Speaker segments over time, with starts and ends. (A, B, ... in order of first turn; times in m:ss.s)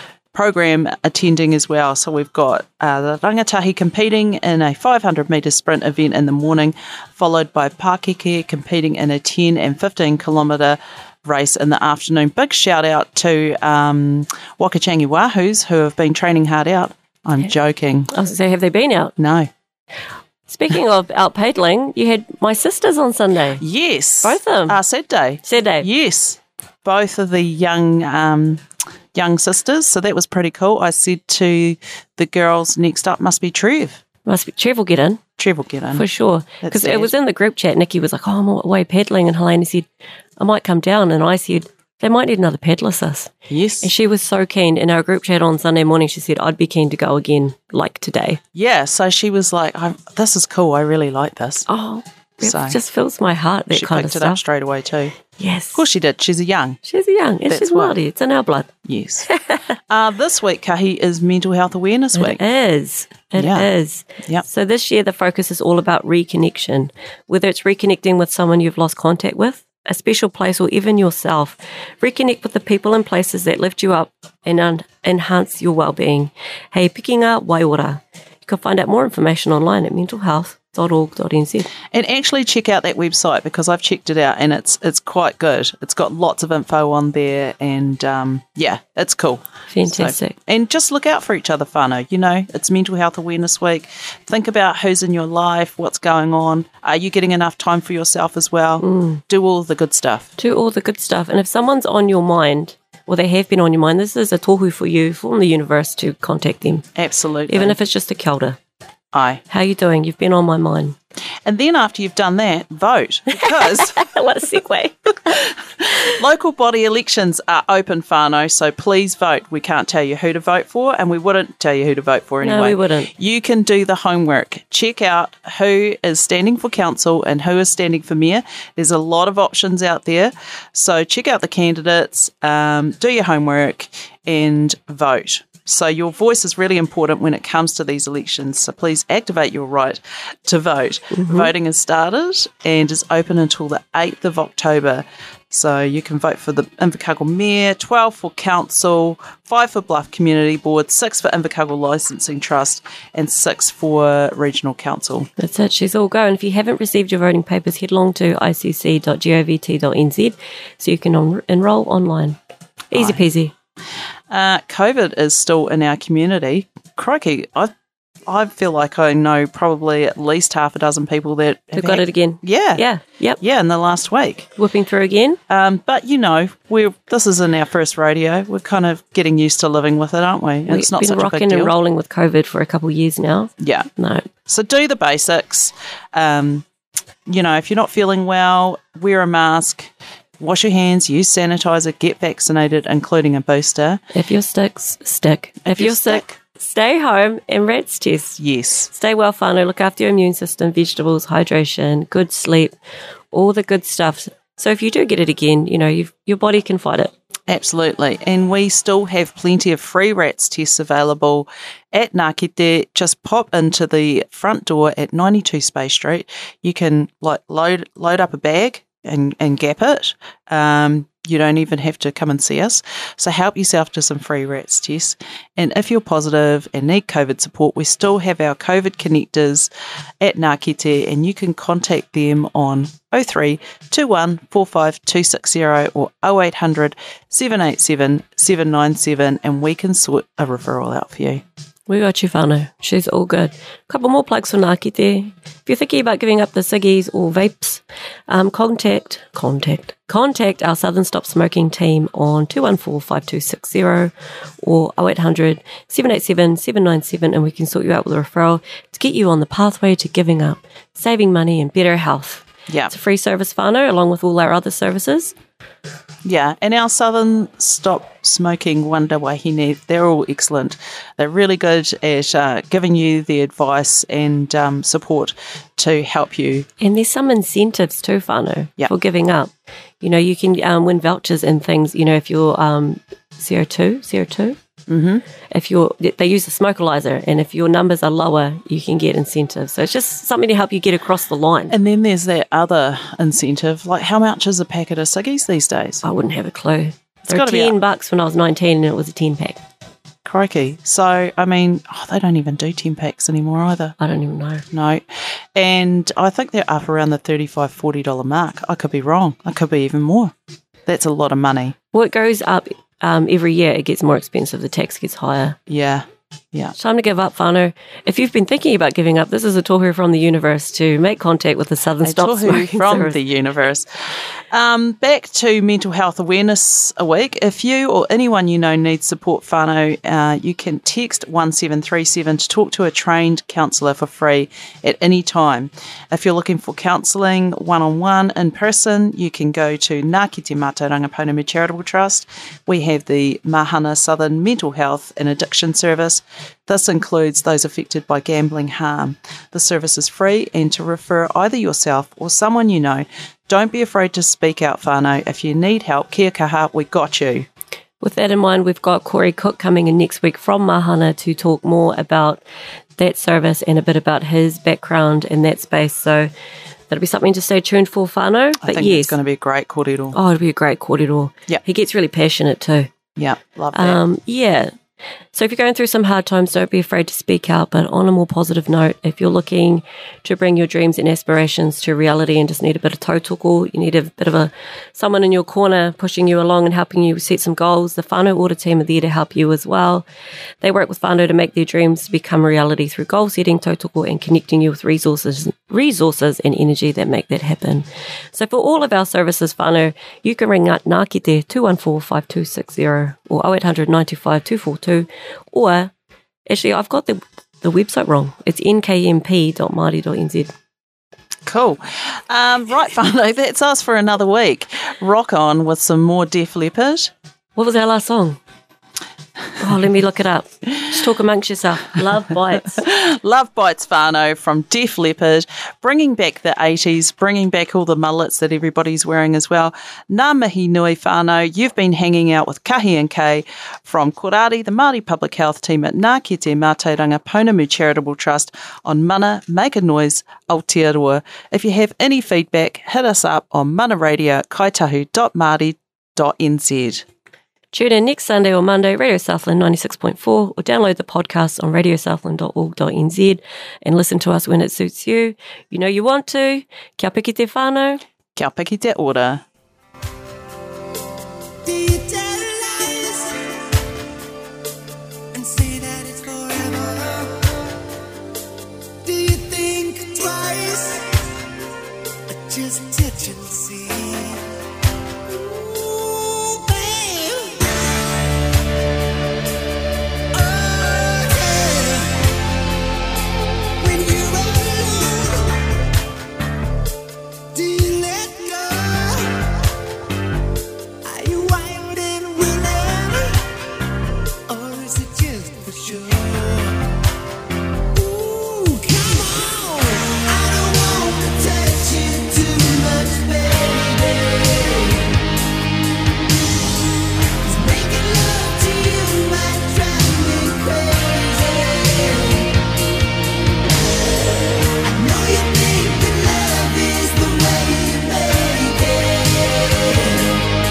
0:00.3-0:18.1 A
0:18.1-0:19.1 B
0:19.2-0:19.5 A
0:20.5-0:23.6 B
0:23.6-0:34.0 A
0:24.2-0:24.8 B
0:25.4-0:25.9 B
0:34.3-0:35.2 B
0:35.4-0:36.1 A
0:35.9-0:39.9 B
0:36.6-0:37.1 A
0:40.4-0:48.4 B
0:43.5-0:43.9 A
0:48.6-0:51.7 A
0:51.7-0:54.4 B
0:52.4-0:52.8 A
0:53.7-0:55.2 A
0:55.4-0:55.8 B
0:55.7-0:56.8 A
0:56.8-0:58.7 B
0:57.5-0:58.0 A
0:58.8-0:59.3 A
0:59.3-0:59.6 B
0:59.9-1:02.4 A
1:02.1-1:21.7 B
1:03.4-1:03.7 A
1:21.9-1:40.3 A
1:29.7-1:30.4 B
1:38.8-1:39.2 B
1:40.4-1:46.9 B
1:47.0-1:47.8 A
1:47.5-1:48.6 B
1:49.1-1:49.4 A
1:49.5-1:51.0 B
1:51.5-1:54.1 A
1:53.4-1:56.0 B
1:55.8-2:35.3 A
2:02.4-2:03.1 B
2:21.2-2:21.5 B
2:35.4-2:42.4 B
2:42.9-2:43.5 B
2:43.0-2:43.2 A
2:44.3-2:47.7 A
2:48.3-2:52.8 A
2:51.8-2:53.4 B
2:53.4-2:54.5 A
2:54.6-2:55.4 B
2:55.5-3:01.7 A
3:00.7-3:04.3 B
3:03.6-3:03.9 A
3:04.4-3:06.6 A
3:07.3-3:14.0 A
3:14.1-3:22.8 B
3:15.7-3:16.3 A
3:18.4-3:18.9 A
3:23.3-3:27.1 B
3:27.5-3:49.7 A
3:50.2-4:01.4 A
4:01.9-4:25.3 B
4:26.2-4:36.7 A
4:36.8-4:44.6 B
4:44.9-4:45.2 A
4:45.5-4:51.8 B
4:51.7-4:56.0 A
4:56.0-4:59.6 B
4:57.3-4:57.8 A
5:00.2-5:04.0 A
5:04.0-5:04.6 B
5:04.7-5:05.0 A
5:05.6-5:10.3 A
5:10.9-5:11.8 A
5:11.9-5:15.6 B
5:15.7-5:16.8 A
5:16.8-5:23.2 B
5:22.0-5:57.5 A
5:58.0-6:02.4 B
6:03.0-6:06.3 B
6:06.9-6:09.2 B
6:08.6-6:10.2 A
6:10.1-6:12.9 B
6:13.2-6:14.0 A
6:13.8-6:14.7 B
6:15.3-6:30.0 B
6:30.6-6:45.9 B
6:46.5-6:50.5 B
6:51.5-6:57.1 A
6:57.6-6:58.4 B
6:59.6-7:02.8 B
7:02.8-7:27.0 A
7:27.7-7:38.0 B
7:38.4-7:39.4 A
7:41.6-7:43.6 C
7:45.3-7:47.6 C
7:49.0-7:51.1 C
7:52.3-7:54.5 C
7:55.3-7:57.7 C
8:00.3-8:02.3 C
8:03.8-8:05.7 C
8:07.5-8:09.4 C
8:11.0-8:13.4 C
8:14.5-8:16.8 C
8:18.0-8:25.1 C
8:27.4-8:32.6 C
8:34.8-8:40.4 C